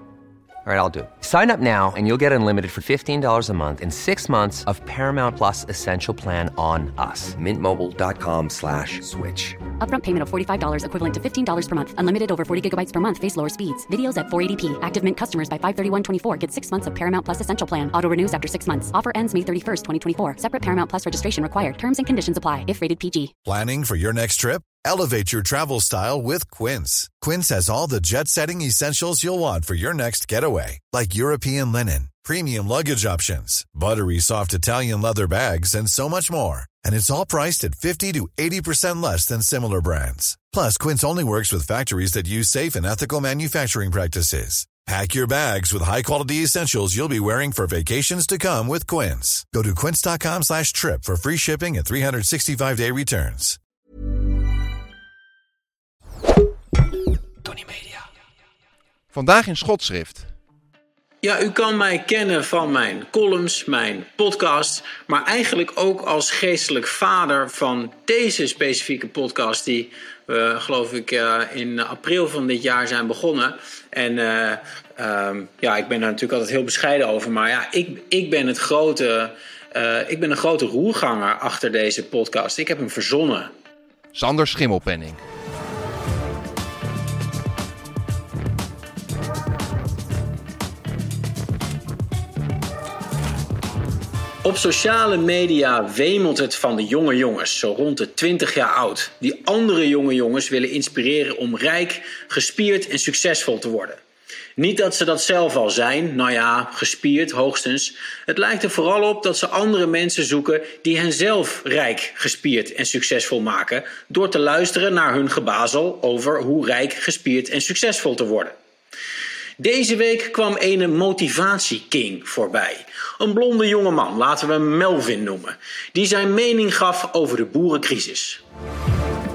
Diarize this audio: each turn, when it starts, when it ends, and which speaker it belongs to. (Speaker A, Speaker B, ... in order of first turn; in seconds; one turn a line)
Speaker A: 0.7-9.6
Speaker B: 9.8-23.3
Speaker C: 23.5-53.6
Speaker D: 59.1-60.3
Speaker E: 61.2-83.5
Speaker D: 84.1-85.2
Speaker E: 94.4-104.0
Speaker E: 104.6-118.5
Speaker E: 119.6-128.4